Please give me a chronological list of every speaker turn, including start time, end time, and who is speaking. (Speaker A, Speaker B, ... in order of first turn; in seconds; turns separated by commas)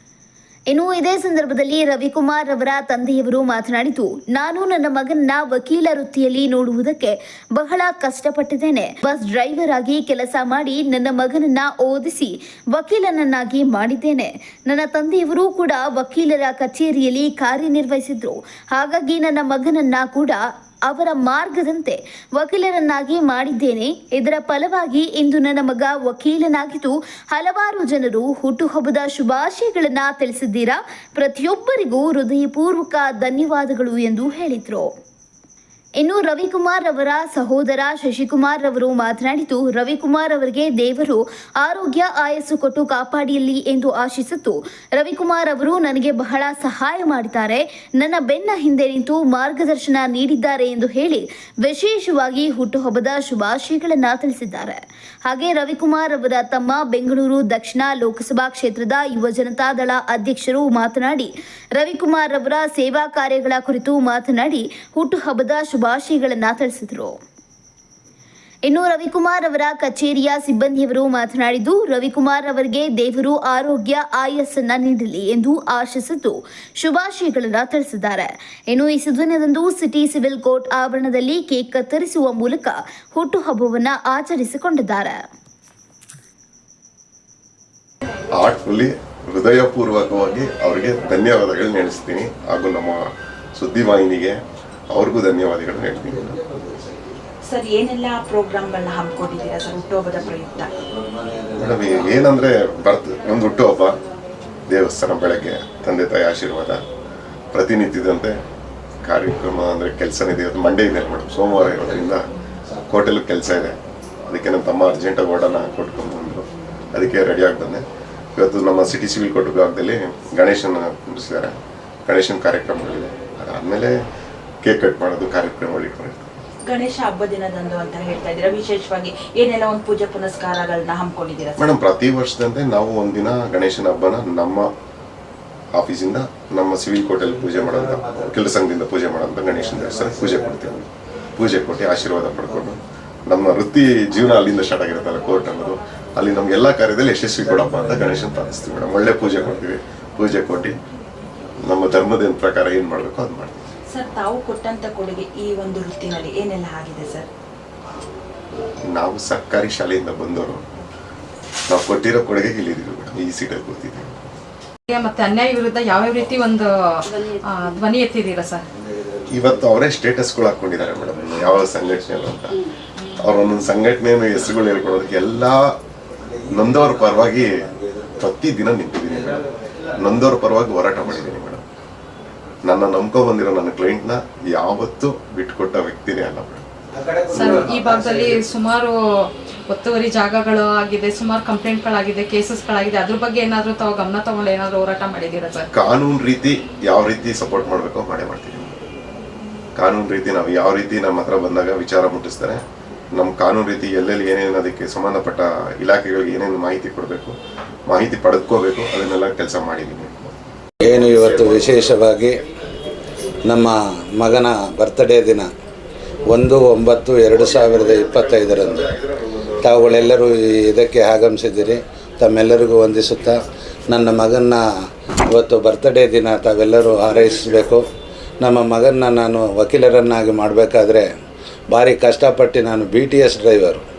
Speaker A: 0.7-34.9, Speaker A: 36.0-67.2, Speaker A: 68.7-85.2, Speaker B: 88.3-93.0, Speaker B: 93.5-94.4, Speaker B: 94.9-96.4, Speaker C: 97.4-100.7, Speaker B: 101.5-104.0, Speaker B: 104.7-106.8, Speaker B: 107.5-108.4, Speaker B: 109.0-112.2, Speaker B: 112.9-113.8, Speaker B: 114.3-117.8, Speaker B: 118.4-121.5, Speaker B: 122.1-124.0, Speaker B: 124.6-126.3, Speaker C: 126.7-131.8, Speaker B: 131.6-134.7, Speaker B: 135.8-150.8, Speaker B: 151.7-153.7, Speaker C: 153.9-157.3, Speaker B: 158.9-160.6, Speaker B: 161.7-164.3, Speaker D: 164.9-168.7, Speaker B: 169.3-172.6, Speaker B: 173.2-175.7, Speaker B: 176.5-177.7, Speaker B: 178.2-181.6, Speaker B: 182.6-186.7, Speaker D: 187.3-195.7, Speaker B: 195.7-198.7, Speaker B: 199.8-202.6, Speaker B: 203.1-207.4, Speaker B: 207.9-210.3, Speaker E: 210.8-212.4, Speaker E: 213.5-215.5, Speaker E: 216.3-218.9, Speaker E: 219.6-224.6, Speaker E: 225.3-227.8, Speaker E: 228.4-231.1, Speaker E: 231.7-233.8